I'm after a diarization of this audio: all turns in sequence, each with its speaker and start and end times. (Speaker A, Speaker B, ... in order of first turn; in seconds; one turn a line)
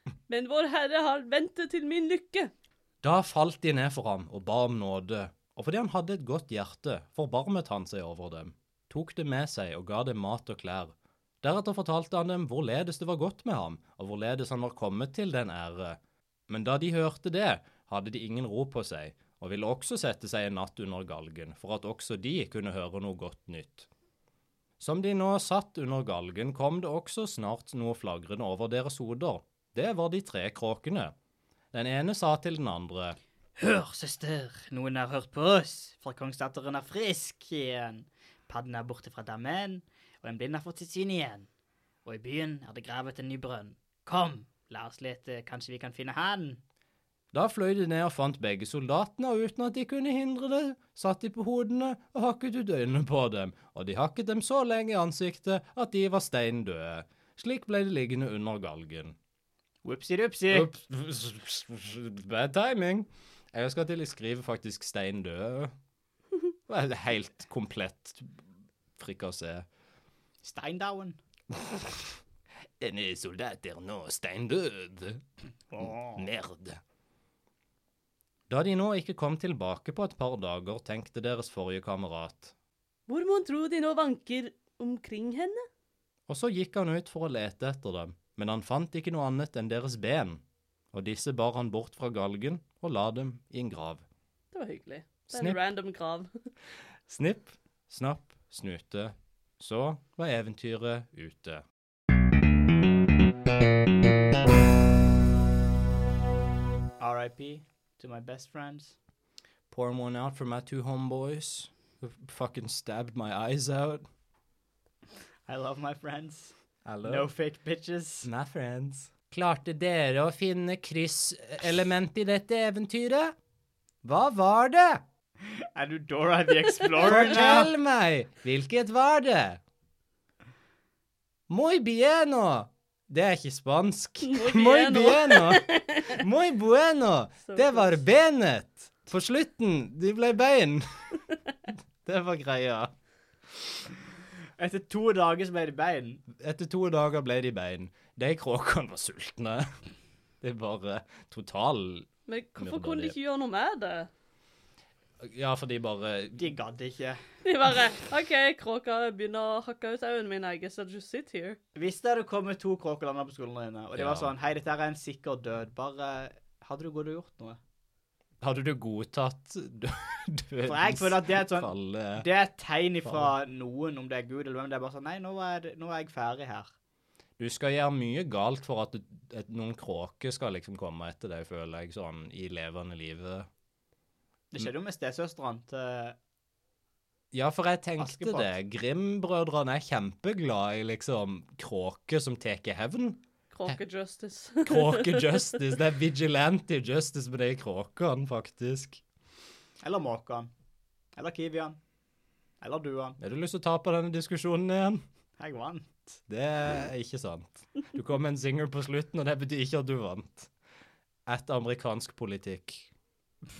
Speaker A: 0.3-2.5
Speaker B: 3.0-23.9
Speaker B: 24.8-31.1
Speaker B: 31.7-33.2
Speaker C: 33.6-41.5
Speaker C: 42.0-46.6
Speaker B: 47.3-59.2
Speaker C: 59.8-60.7
Speaker B: 60.5-65.7
Speaker B: 66.7-68.4
Speaker B: 69.0-69.7
Speaker C: 70.4-71.2
Speaker B: 72.8-75.2
Speaker C: 75.7-76.2
Speaker B: 75.8-76.8
Speaker B: 78.5-82.5
Speaker A: 83.1-85.7
Speaker B: 86.3-94.0
Speaker A: 94.5-96.3
Speaker B: 95.3-95.6
Speaker B: 97.1-101.6
Speaker C: 107.0-109.0
Speaker B: 109.7-114.0
Speaker C: 115.5-118.3
Speaker B: 116.8-117.3
Speaker B: 118.2-123.3
Speaker B: 124.0-125.0
Speaker C: 125.6-127.7
Speaker B: 127.0-129.6
Speaker B: 131.5-141.2
Speaker A: 134.3-136.2
Speaker A: 137.5-137.9
Speaker B: 142.0-142.9
Speaker C: 144.6-146.2
Speaker B: 146.4-149.7
Speaker B: 150.4-153.2
Speaker A: 152.3-154.1
Speaker B: 155.2-156.5
Speaker C: 156.4-157.2
Speaker A: 157.4-161.6
Speaker C: 161.8-167.6
Speaker B: 164.0-164.3
Speaker B: 168.4-172.3
Speaker C: 170.7-176.7
Speaker B: 173.0-173.3
Speaker B: 177.4-183.5
Speaker C: 184.5-186.2
Speaker B: 187.3-193.8
Speaker C: 188.0-188.5
Speaker A: 193.5-195.6
Speaker B: 194.6-199.0
Speaker C: 199.8-200.5
Speaker C: 201.2-201.8
Speaker C: 202.6-203.2
Speaker B: 203.2-205.0
Speaker C: 205.4-206.2
Speaker B: 206.3-210.5
Speaker B: 211.3-212.9